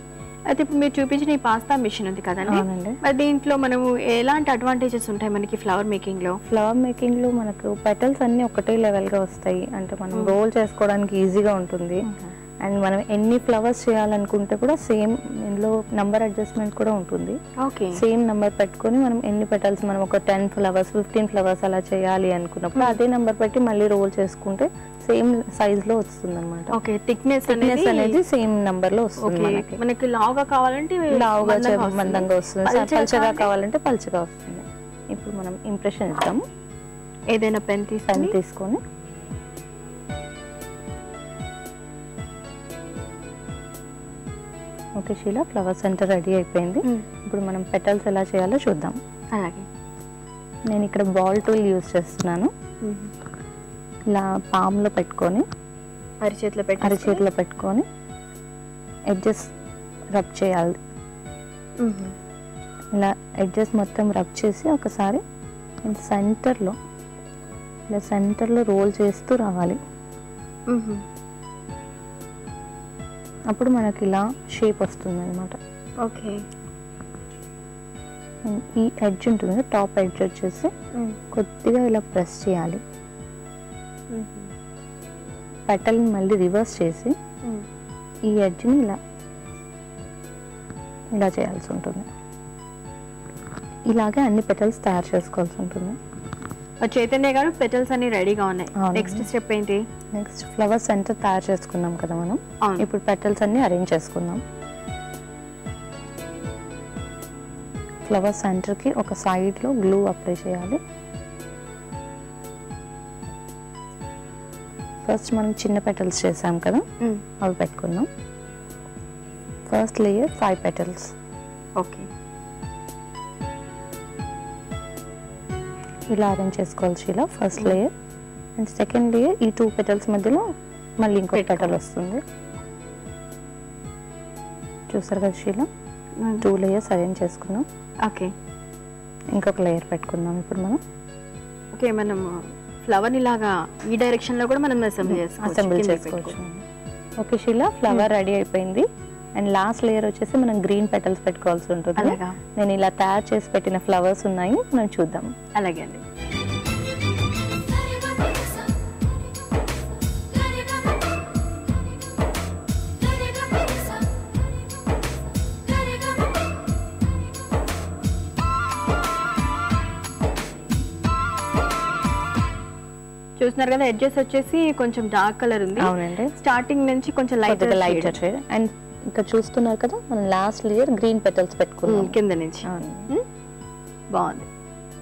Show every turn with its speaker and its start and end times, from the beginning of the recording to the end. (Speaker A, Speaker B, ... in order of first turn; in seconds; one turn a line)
Speaker A: 0.5-6.4
Speaker B: 2.4-3.0
Speaker B: 6.5-12.0
Speaker A: 12.1-12.3
Speaker B: 12.6-17.4
Speaker A: 17.6-18.0
Speaker B: 17.9-26.7
Speaker A: 26.7-28.2
Speaker B: 27.5-29.8
Speaker A: 29.2-33.5
Speaker B: 31.1-36.4
Speaker A: 37.3-38.4
Speaker B: 38.1-38.8
Speaker B: 45.0-49.0
Speaker A: 49.3-49.6
Speaker B: 50.7-52.5
Speaker A: 52.8-53.1
Speaker B: 54.1-55.4
Speaker A: 56.2-57.2
Speaker B: 56.8-57.8
Speaker B: 59.1-59.5
Speaker B: 60.1-60.8
Speaker A: 61.8-62.1
Speaker B: 62.9-65.2
Speaker B: 65.8-66.8
Speaker B: 67.9-69.8
Speaker A: 70.7-71.0
Speaker B: 73.5-75.6
Speaker A: 76.0-76.4
Speaker B: 78.5-80.7
Speaker B: 81.3-82.8
Speaker A: 84.1-84.5
Speaker B: 85.7-87.1
Speaker B: 88.3-89.0
Speaker B: 91.2-92.1
Speaker B: 93.9-95.9
Speaker A: 96.8-99.8
Speaker B: 98.8-99.3
Speaker B: 100.1-104.4
Speaker A: 102.6-102.9
Speaker B: 108.0-110.8
Speaker B: 115.0-116.8
Speaker B: 117.4-118.1
Speaker B: 119.7-121.1
Speaker A: 121.8-122.1
Speaker B: 126.1-127.9
Speaker A: 127.6-127.8
Speaker B: 128.6-130.4
Speaker B: 131.0-132.2
Speaker A: 131.3-131.8
Speaker B: 134.9-135.7
Speaker A: 136.2-136.4
Speaker B: 136.4-137.6
Speaker A: 138.1-138.3
Speaker B: 139.3-140.8
Speaker A: 141.7-146.3
Speaker B: 145.0-146.6
Speaker B: 147.2-148.8
Speaker B: 149.4-155.3
Speaker A: 152.0-152.4
Speaker A: 155.6-156.0
Speaker A: 173.4-178.2
Speaker B: 175.8-176.3
Speaker B: 177.4-183.1
Speaker A: 181.8-183.2
Speaker A: 184.1-184.5